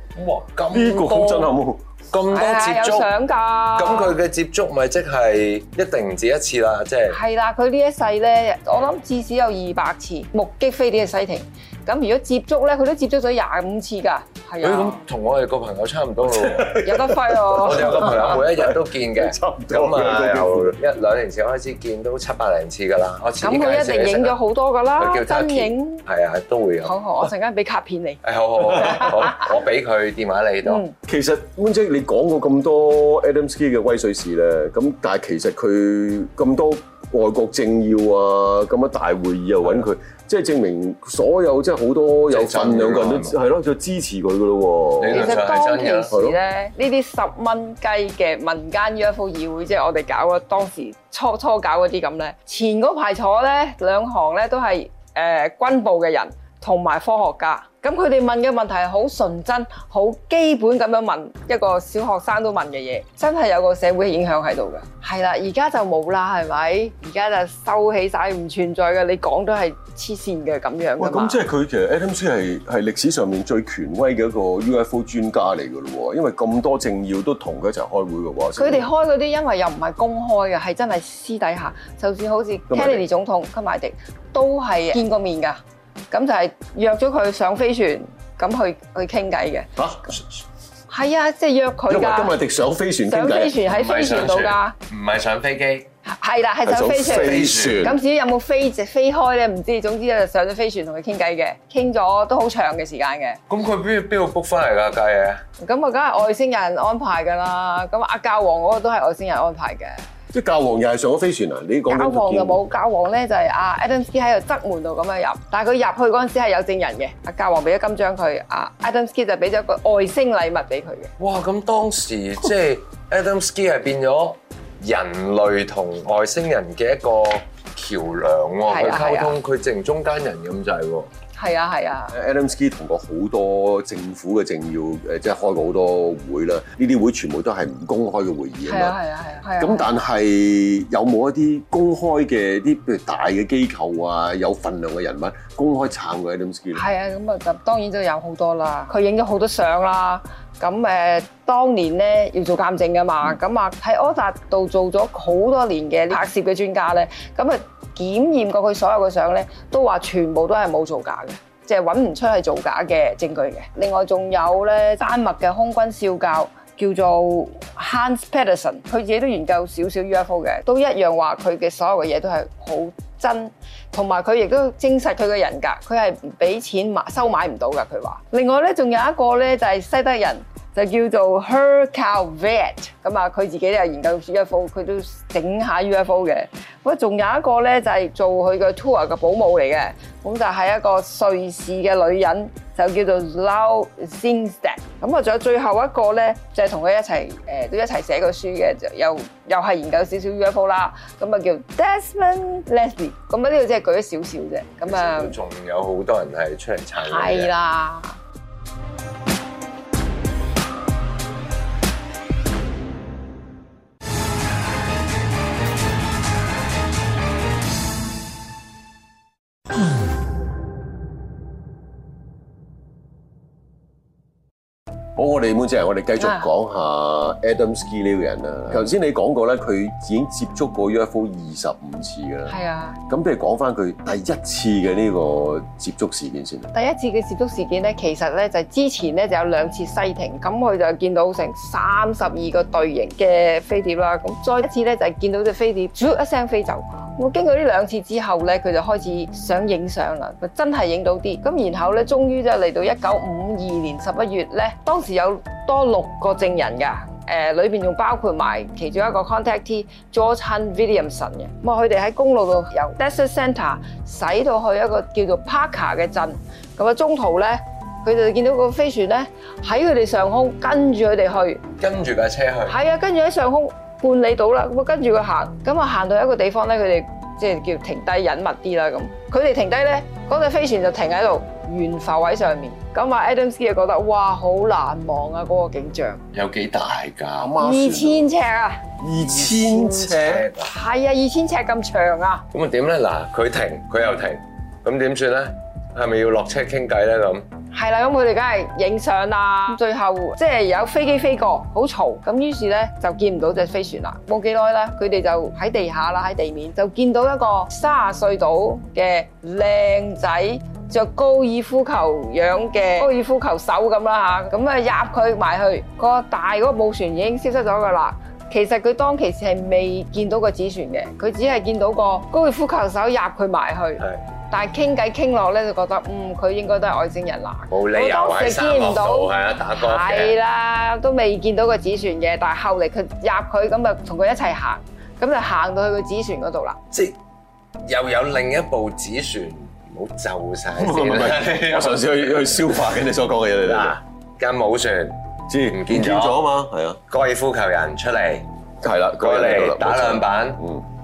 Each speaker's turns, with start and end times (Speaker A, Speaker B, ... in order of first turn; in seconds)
Speaker A: 0.1-1.5, 2.1-3.1, 3.8-7.2, 14.6-16.8, 17.6-24.4, 25.0-27.0, 28.2-30.8, 42.3-43.4, 45.0-46.2, 93.7-95.9, 97.0-97.9, 103.5-105.4, 121.2-131.1, 204.8-207.5, 271.8-272.8, 286.3-287.5, 289.2-290.7, 292.5-297.5, 327.7-330.4, 337.8-342.7, 343.6-345.2, 345.7-346.4, 347.1-348.4, 349.2-350.6
Speaker B: 0.7-1.8, 16.2-20.8, 31.1-45.4, 46.1-46.4, 71.0-78.9, 82.7-83.0, 89.8-90.2, 91.9-93.6, 96.7-98.0, 110.3-112.6, 132.1-139.0, 139.6-146.8, 225.2-232.6, 233.1-236.7, 287.4-288.3, 289.0-290.5, 340.8-344.0, 345.5-347.0, 348.8-350.8
Speaker C: 2.3-4.2, 7.1-15.0, 16.8-18.4, 23.4-26.0, 26.8-29.4, 30.6-30.9, 45.1-71.4, 78.6-89.7, 90.9-92.3, 93.1-94.8, 96.0-103.4, 105.6-110.0, 111.9-121.1, 128.7-129.4, 131.3-132.2, 138.7-139.9, 146.8-205.3, 207.0-208.2, 226.2-226.5, 232.5-233.0, 236.7-271.6, 272.7-286.2, 287.6-288.8, 290.6-292.4, 297.7-336.8